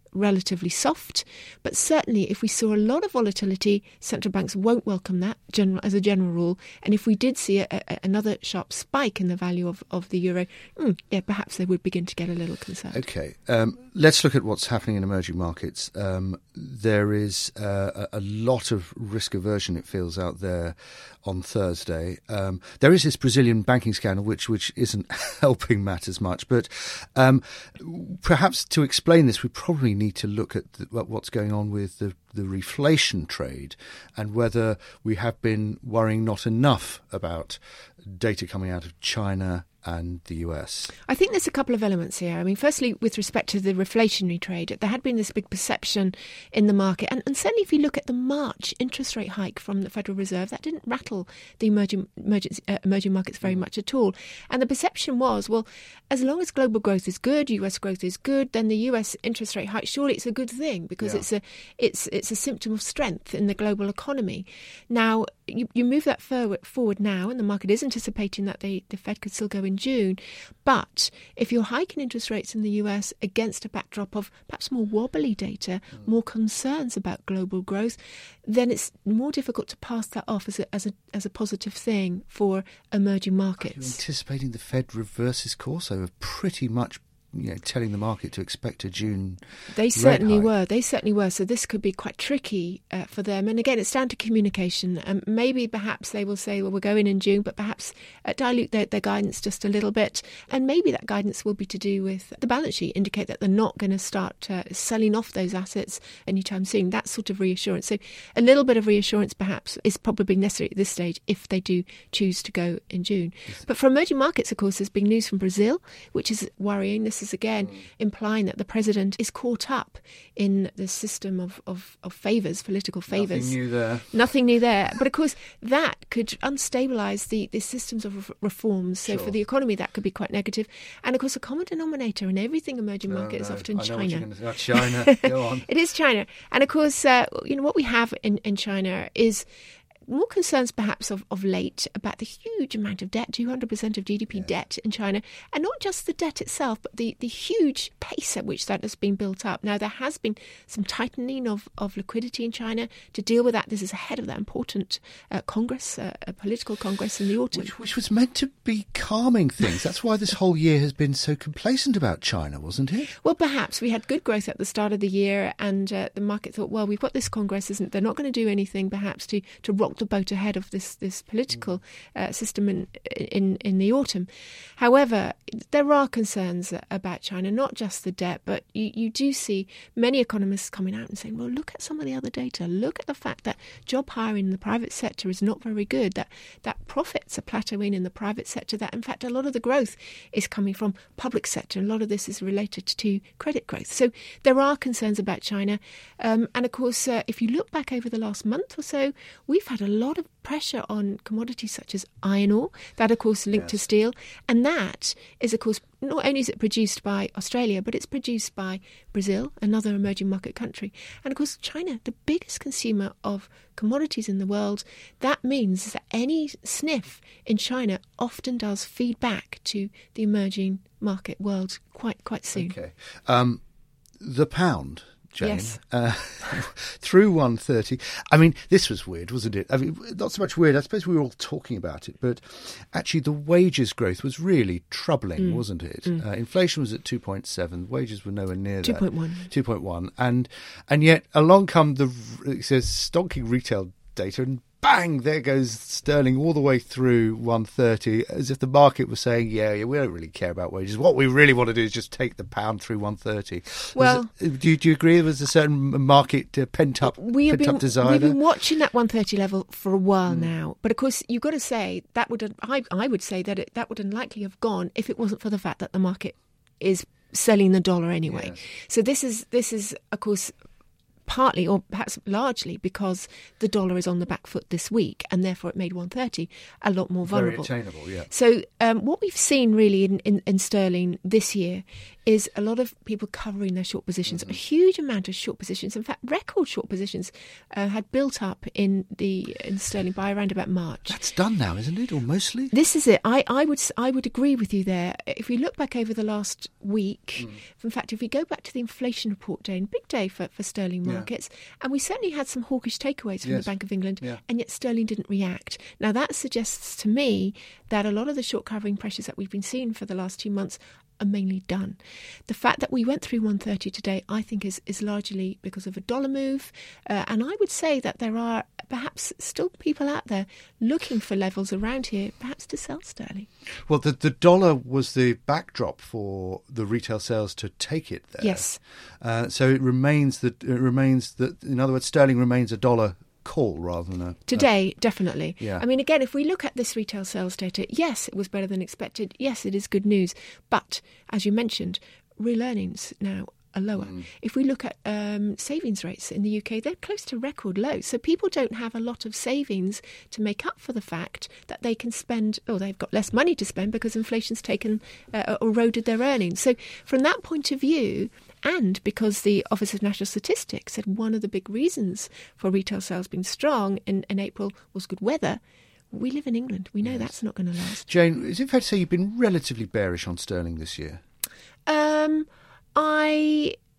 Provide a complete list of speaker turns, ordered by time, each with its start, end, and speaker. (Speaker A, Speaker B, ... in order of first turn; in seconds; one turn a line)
Speaker A: 0.1-12.9
Speaker B: 12.9-40.9
Speaker A: 41.1-83.8
Speaker B: 61.0-61.2
Speaker B: 83.6-90.5
Speaker A: 89.7-123.5
Speaker B: 123.1-125.0
Speaker A: 124.4-134.2
Speaker B: 129.0-129.4
Speaker B: 133.0-135.7
Speaker A: 135.7-139.4
Speaker A: 140.1-157.5
Speaker B: 144.3-144.6
Speaker B: 157.5-163.1
Speaker A: 163.2-222.6
Speaker B: 203.5-203.8
Speaker B: 222.5-223.6
Speaker B: 224.2-258.6
Speaker A: 257.2-270.5
Speaker B: 260.2-260.6
Speaker B: 268.2-268.7
Speaker A: 271.3-277.6
Speaker B: 277.2-278.3
Speaker A: 278.3-291.1
Speaker B: 284.2-284.6
Speaker B: 291.1-292.8
Speaker A: 292.8-311.9
Speaker B: 297.4-297.6
Speaker B: 301.0-301.3
Speaker B: 303.4-304.4
Speaker A: 312.5-323.5
Speaker B: 323.9-334.8
Speaker A: 334.5-365.6
Speaker B: 335.6-335.8
Speaker B: 343.9-344.3
Speaker A: 366.1-368.0
Speaker B: 367.0-371.2
Speaker A: 371.9-373.7